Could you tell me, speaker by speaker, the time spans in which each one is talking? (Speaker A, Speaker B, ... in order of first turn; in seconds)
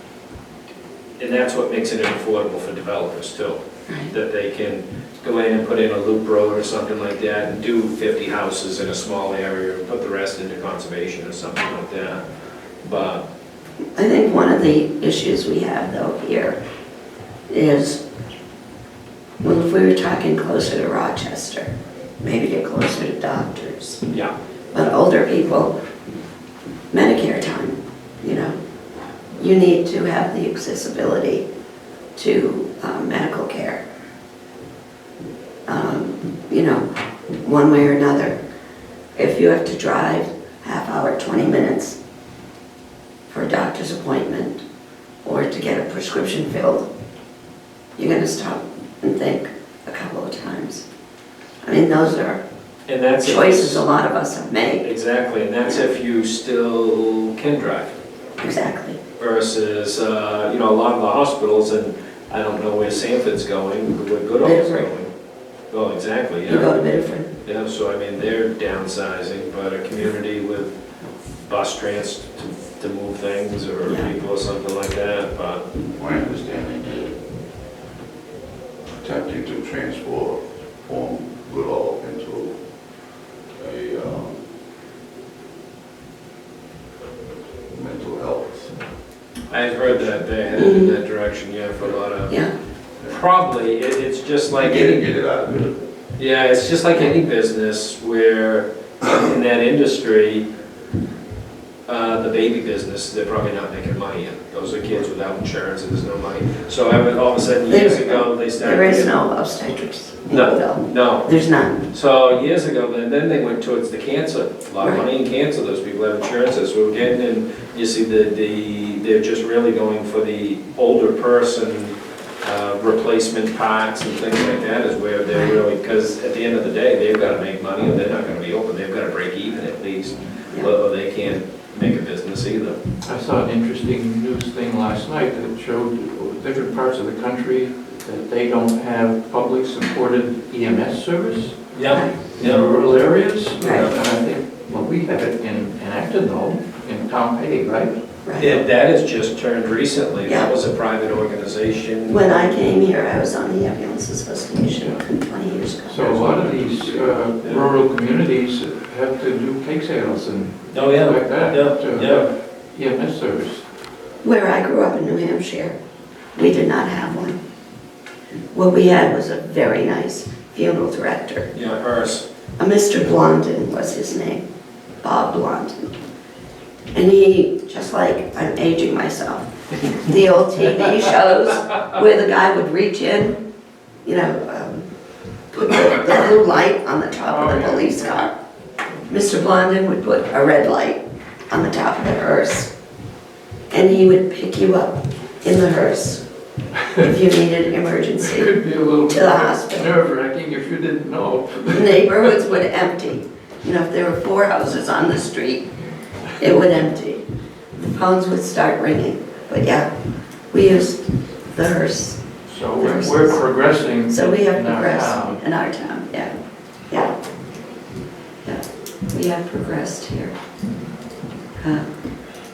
Speaker A: 1.2-3.6, 4.1-12.2, 12.8-13.2, 52.9-53.8, 54.8-57.9, 59.2-65.1, 65.7-66.7, 67.4-70.7, 71.4-75.6, 89.5-92.4, 93.1-95.1, 96.2-100.5, 101.9-109.1, 110.3-111.3, 111.9-121.9, 122.4-132.8, 141.7-142.6, 143.6-143.9, 148.4-152.6, 156.1-156.4, 160.7-162.3, 171.5-172.2
Speaker B: 13.9-16.6, 17.5-18.0, 19.4-21.7, 22.2-24.0, 24.7-25.7, 26.9-28.6, 29.4-31.4, 32.1-33.8, 35.7-36.9, 37.4-38.4, 39.1-42.0, 43.3-44.6, 45.2-46.9, 48.0-50.9, 51.6-52.4, 53.2-54.9, 58.4-59.0, 64.4-64.9, 66.5-67.3, 90.6-91.0, 107.7-111.9, 125.3-125.6, 141.9-142.1, 143.6-143.9, 148.2-148.6, 150.2-150.5, 152.1-156.1, 164.2-165.8, 166.3-167.4, 168.5-171.5, 172.6-174.4, 175.0-175.9, 176.9-183.4, 184.0-184.9, 185.5-188.3, 189.1-192.7, 193.7-196.2, 196.9-198.5, 199.1-199.9, 201.7-205.7, 206.4-207.2, 207.7-209.9, 210.5-212.2, 212.8-213.4, 214.1-216.3, 218.4-220.3
Speaker C: 75.9-77.2, 79.0-82.5, 83.6-84.4, 87.7-88.7, 94.5-95.9
Speaker D: 133.0-141.6, 142.3-147.9, 155.8-163.6, 187.2-188.0, 198.2-202.3, 212.5-215.4